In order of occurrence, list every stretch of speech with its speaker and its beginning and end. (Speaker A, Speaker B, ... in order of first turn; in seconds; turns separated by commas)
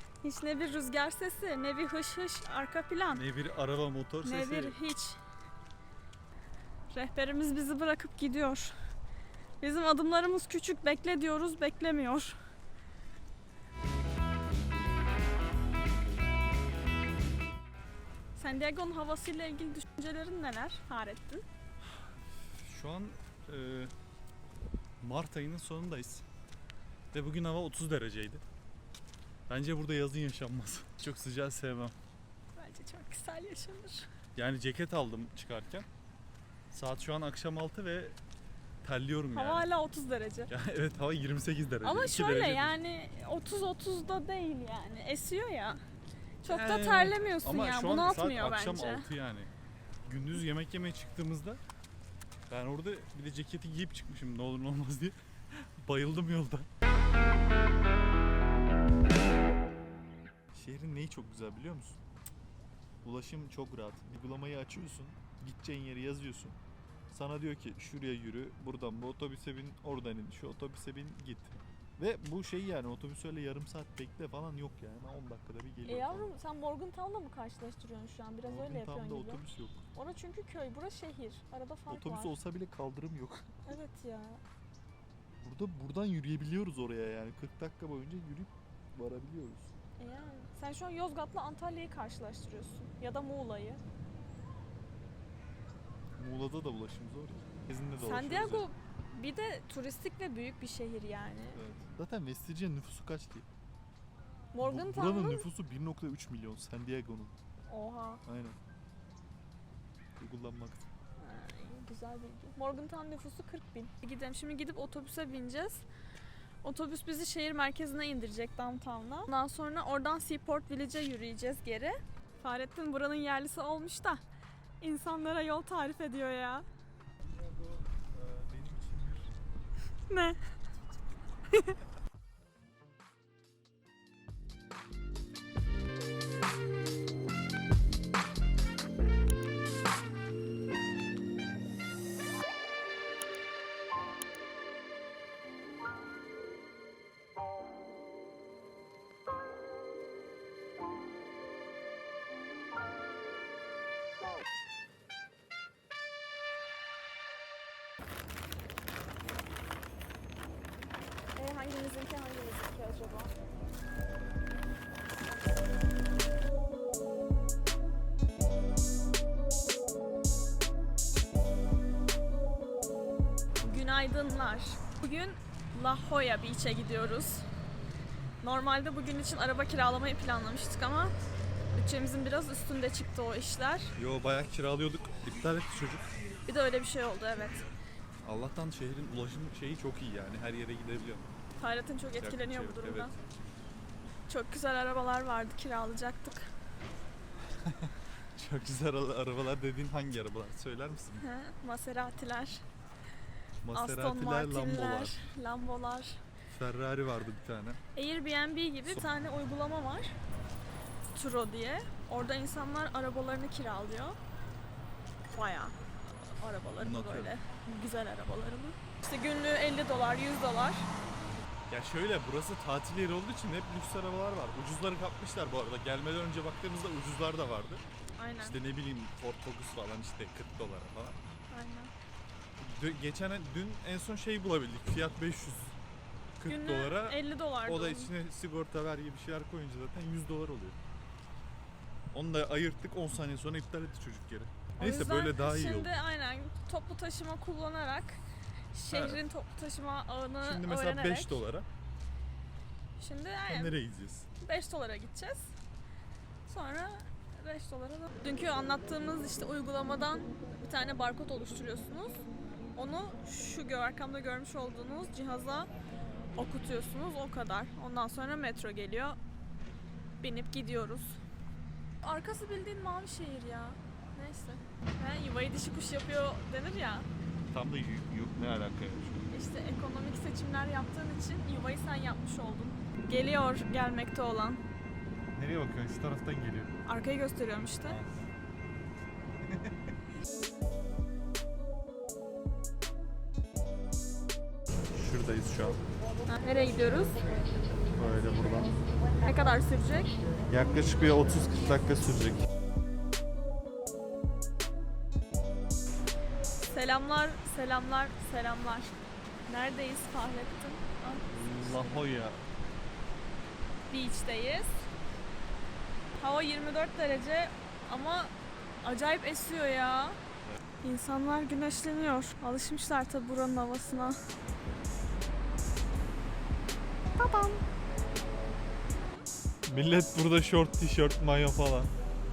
Speaker A: 0.2-3.2, Speaker B: 3.1-4.8, Speaker A: 4.2-5.2, Speaker A: 6.9-8.7, Speaker A: 9.6-12.4, Speaker A: 18.4-21.4, Speaker B: 22.3-23.9, Speaker B: 25.0-26.2, Speaker B: 27.1-28.4, Speaker B: 29.5-31.9, Speaker A: 32.5-34.1, Speaker B: 34.4-35.9, Speaker B: 36.7-38.2, Speaker B: 38.8-39.7, Speaker A: 39.3-40.5, Speaker B: 40.5-42.8, Speaker A: 41.8-45.8, Speaker A: 46.4-49.1, Speaker B: 46.5-49.5, Speaker B: 50.0-51.6, Speaker B: 52.5-56.7, Speaker B: 60.5-62.0, Speaker B: 63.0-66.6, Speaker B: 67.1-76.3, Speaker A: 75.8-82.3, Speaker B: 78.4-79.8, Speaker B: 81.9-83.5, Speaker A: 83.7-84.4, Speaker B: 85.4-89.7, Speaker A: 90.0-93.8, Speaker B: 96.2-98.7, Speaker A: 98.0-101.6, Speaker B: 101.5-103.5, Speaker A: 104.5-105.5, Speaker B: 104.6-107.3, Speaker A: 107.7-108.2, Speaker B: 108.2-108.6, Speaker B: 110.2-110.9, Speaker A: 111.2-115.8, Speaker A: 116.6-124.2, Speaker A: 124.8-126.7, Speaker B: 127.2-129.3, Speaker A: 130.1-130.4, Speaker A: 161.3-163.3, Speaker A: 173.6-177.5, Speaker A: 178.4-181.1, Speaker A: 181.7-183.9, Speaker B: 183.9-186.1, Speaker A: 186.4-187.7, Speaker B: 188.2-191.2, Speaker A: 191.6-193.1, Speaker B: 192.1-193.2, Speaker A: 194.3-196.5, Speaker B: 197.5-201.2, Speaker A: 201.2-202.6, Speaker B: 203.6-205.3, Speaker A: 203.7-206.2, Speaker B: 206.5-207.8, Speaker A: 207.9-210.1, Speaker A: 211.1-214.2, Speaker A: 215.3-220.9, Speaker B: 216.8-217.3, Speaker B: 221.7-227.8, Speaker A: 228.2-228.6, Speaker B: 228.4-231.2, Speaker A: 231.5-231.9, Speaker B: 232.6-235.8, Speaker B: 236.4-240.8, Speaker A: 236.4-238.1, Speaker B: 242.1-245.9, Speaker A: 244.8-248.2, Speaker A: 248.7-251.4, Speaker B: 248.9-249.2, Speaker B: 250.4-251.7, Speaker A: 253.0-253.8, Speaker B: 253.5-254.3, Speaker A: 254.4-255.5, Speaker A: 256.4-262.2, Speaker A: 262.8-265.7, Speaker A: 266.4-269.2, Speaker A: 270.2-271.2, Speaker A: 272.0-277.1, Speaker B: 277.5-279.2, Speaker A: 279.3-284.6, Speaker B: 285.3-286.7, Speaker A: 286.9-288.0, Speaker B: 287.8-288.3, Speaker B: 289.4-289.8, Speaker B: 294.9-295.8, Speaker A: 296.3-297.2, Speaker B: 297.9-298.8, Speaker A: 299.2-300.1, Speaker B: 300.5-302.4, Speaker A: 306.7-308.9, Speaker A: 309.5-312.0, Speaker B: 311.3-312.4, Speaker A: 313.9-314.9, Speaker A: 316.1-320.2, Speaker A: 320.8-324.2, Speaker A: 327.1-327.6, Speaker B: 329.7-331.9